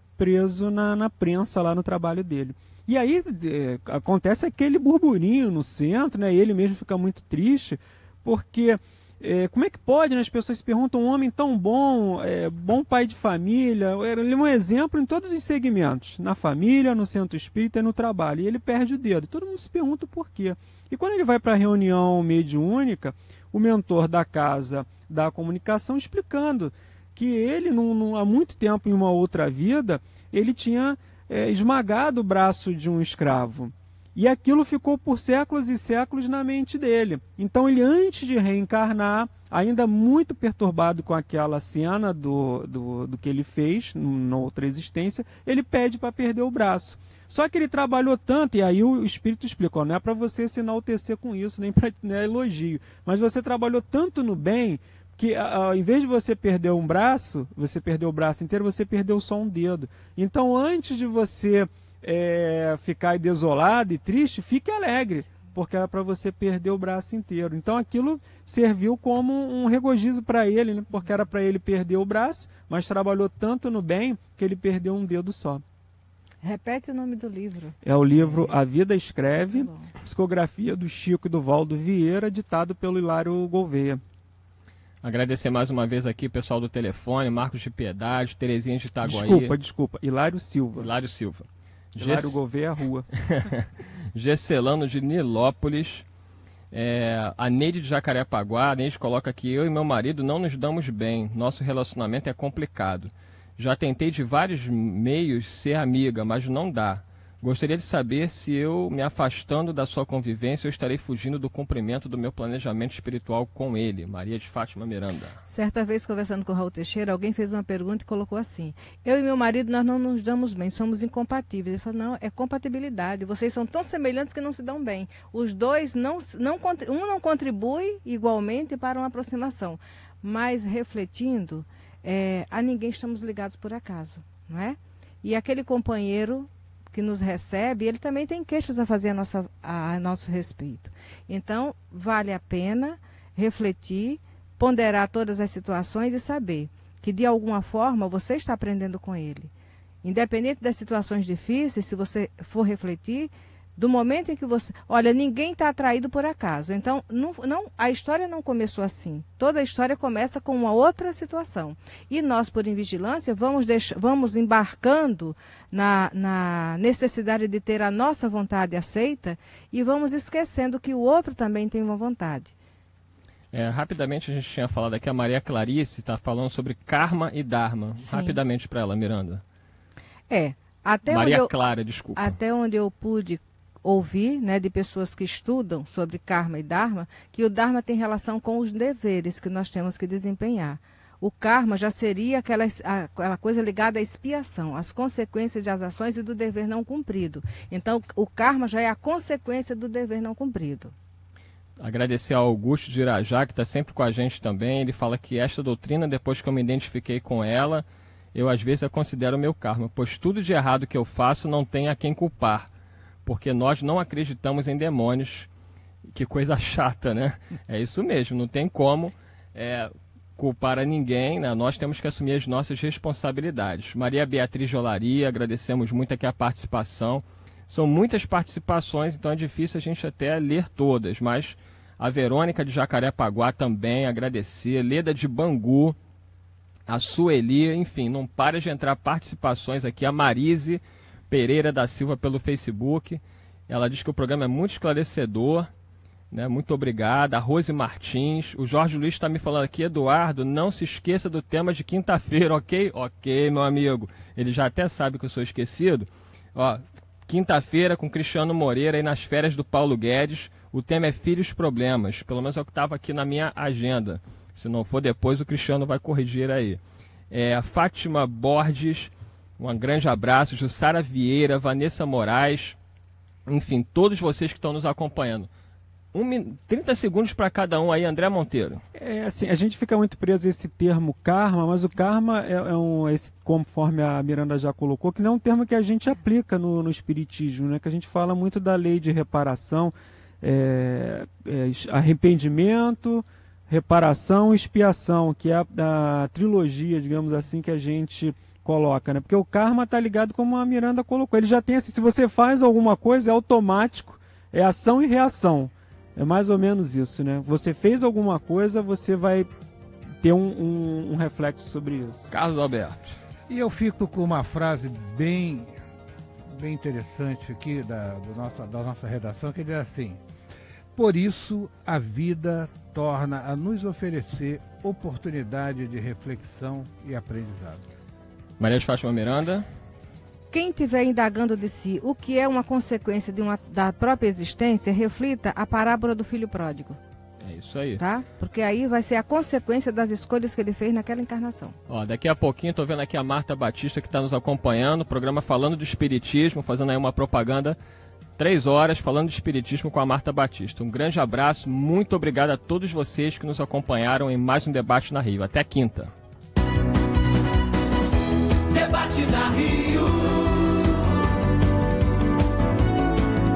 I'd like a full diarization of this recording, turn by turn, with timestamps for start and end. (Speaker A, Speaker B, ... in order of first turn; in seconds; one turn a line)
Speaker A: 0.2-75.6
Speaker B: 76.4-77.8
Speaker A: 77.8-84.0
Speaker B: 79.5-79.9
Speaker C: 85.0-89.6
Speaker A: 89.0-90.9
Speaker C: 90.8-92.4
Speaker A: 92.0-93.1
Speaker C: 93.3-96.0
Speaker C: 96.7-115.4
Speaker B: 115.5-149.5
Speaker B: 150.0-172.5
Speaker C: 173.5-179.4
Speaker B: 178.1-178.4
Speaker B: 180.3-181.5
Speaker C: 181.1-182.4
Speaker B: 182.2-200.9
Speaker C: 201.8-212.7
Speaker C: 213.3-215.5
Speaker C: 216.1-236.0
Speaker C: 236.9-245.7
Speaker C: 246.3-266.8
Speaker C: 267.3-272.8
Speaker C: 273.5-275.5
Speaker C: 276.1-278.8
Speaker A: 278.9-309.5
Speaker A: 310.2-312.3
Speaker C: 312.3-313.1
Speaker D: 313.5-315.8
Speaker D: 316.5-320.2
Speaker D: 320.9-327.8
Speaker C: 328.6-329.7
Speaker B: 330.5-337.0
Speaker C: 337.4-338.0
Speaker B: 338.0-341.7
Speaker C: 341.9-347.8
Speaker C: 348.4-356.1
Speaker E: 358.7-361.2